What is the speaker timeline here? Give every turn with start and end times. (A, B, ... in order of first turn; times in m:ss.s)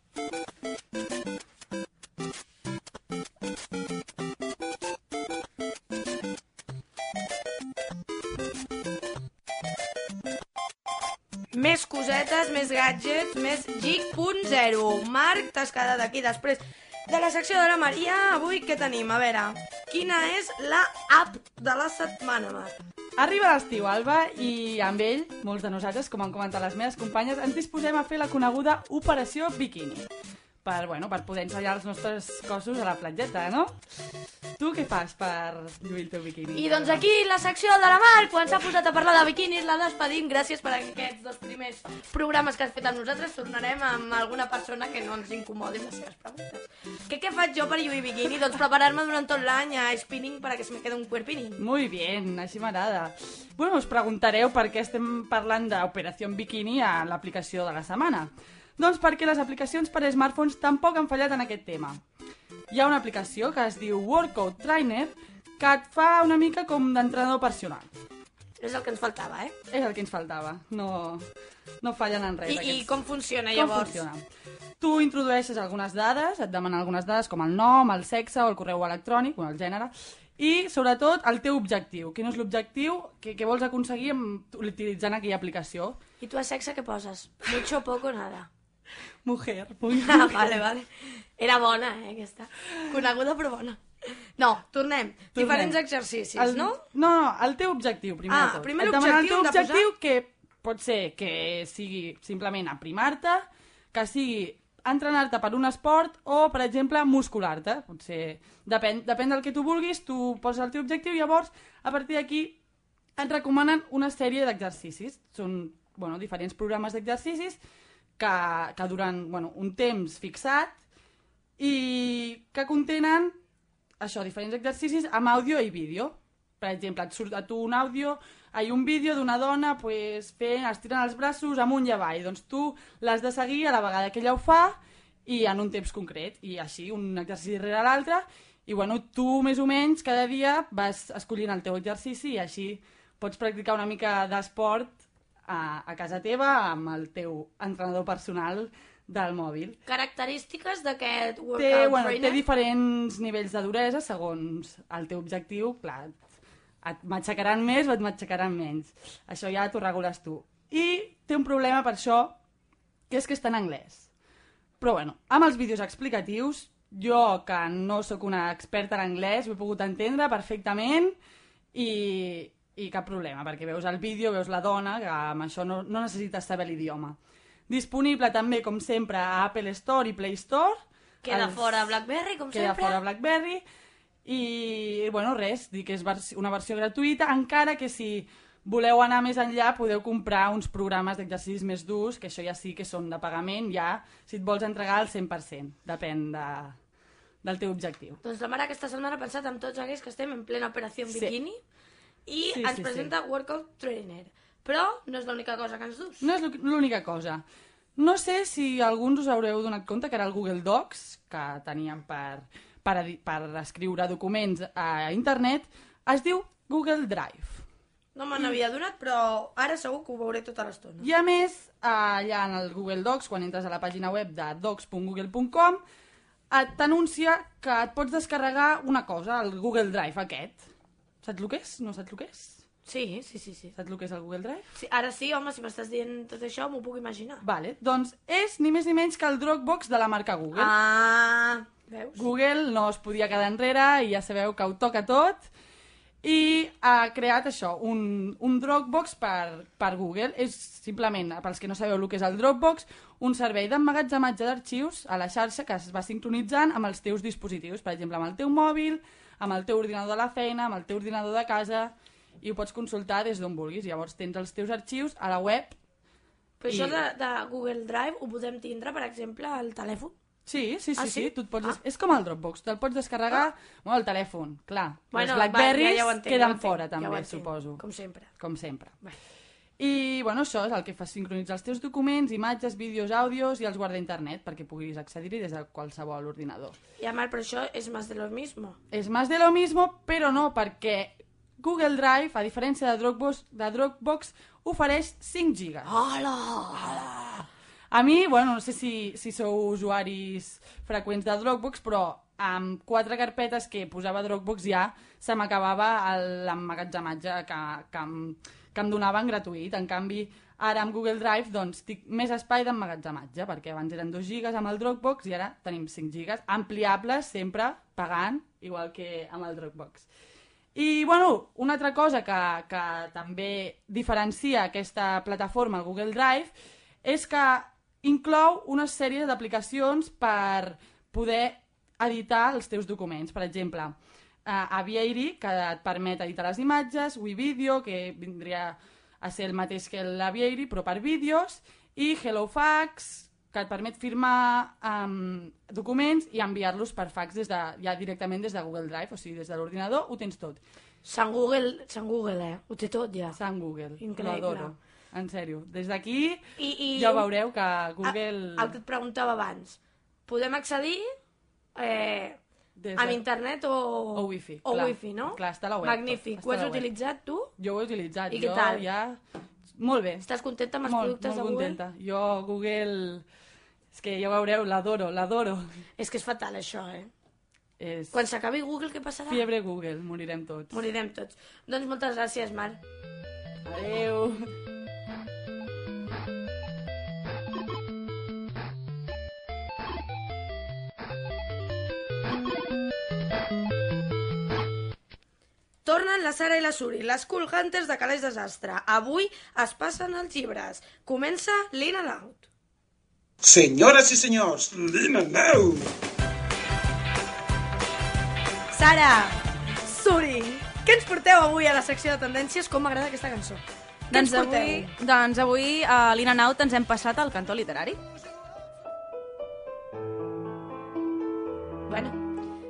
0:11.5-0:22.8 A
0:23.2-0:30.1 B
0:30.6-0:33.8 B
0:34.6-0:37.0 B
0:36.5-0:51.6 A
0:51.6-1:02.0 B
1:02.7-1:07.9 B
1:08.6-1:09.5 A
1:09.7-1:11.2 B
1:11.8-1:12.9 B
1:12.4-1:14.0 A
1:13.5-1:14.2 B
1:14.8-1:26.0 B
1:26.2-1:28.5 A
1:29.2-1:30.6 B
1:30.0-1:33.8 A
1:34.4-1:36.8 A
1:35.3-1:35.8 B
1:36.4-1:52.6 B
1:38.3-1:39.9 A
1:53.2-1:57.6 B
1:58.2-2:00.8 B
2:01.6-2:03.4 B
2:04.0-2:29.8 B
2:29.8-2:32.4 A
2:31.6-2:36.2 B
2:36.8-2:42.4 B
2:43.1-2:44.1 B
2:44.8-2:51.2 B
2:51.7-2:57.2 B
2:57.7-3:01.7 B
3:01.2-3:03.0 A
3:02.5-3:03.6 B
3:04.2-3:16.8 B
3:17.4-3:18.2 B
3:18.2-3:21.6 A
3:21.1-3:21.3 B
3:22.2-3:26.2 A
3:22.5-3:23.1 B
3:26.2-3:27.4 B
3:28.0-3:37.6 B
3:38.1-3:41.0 A
3:41.0-3:45.8 B
3:46.5-3:50.6 B
3:51.2-3:52.6 B
3:52.8-3:53.7 A
3:53.8-3:54.6 B
3:54.7-3:57.4 A
3:57.4-4:00.7 B
4:00.5-4:02.2 A
4:02.1-4:05.4 B
4:06.2-4:25.8 B
4:26.6-4:30.1 A
4:26.7-4:27.0 B
4:30.4-4:37.8 B
4:31.0-4:31.8 A
4:35.1-4:38.3 A
4:38.4-4:39.0 B
4:39.8-4:46.8 B
4:47.0-4:48.8 A
4:48.9-4:55.9 B
4:55.8-4:57.0 A
4:57.9-5:20.1 B
5:20.7-5:26.5 B
5:27.0-5:50.6 B
5:51.0-5:53.4 A
5:53.3-5:56.4 B
5:54.0-5:54.7 A
5:56.6-5:57.3 A
5:56.9-5:58.8 B
5:58.0-6:01.0 A
6:01.8-6:02.4 A
6:02.8-6:03.2 B
6:03.0-6:07.5 A
6:04.1-6:06.9 B
6:07.6-6:09.2 B
6:08.3-6:08.8 A
6:09.7-6:10.2 B
6:10.2-6:11.8 A
6:10.8-6:13.2 B
6:13.9-6:15.6 B
6:16.0-6:17.1 A
6:17.8-6:18.2 B
6:18.1-6:19.4 A
6:19.3-6:20.7 B
6:20.7-6:22.8 A
6:23.6-6:24.4 B
6:35.8-6:42.4 A
6:43.4-6:45.7 C
6:48.7-6:54.9 A
6:54.1-6:58.0 D
7:01.9-7:02.2 A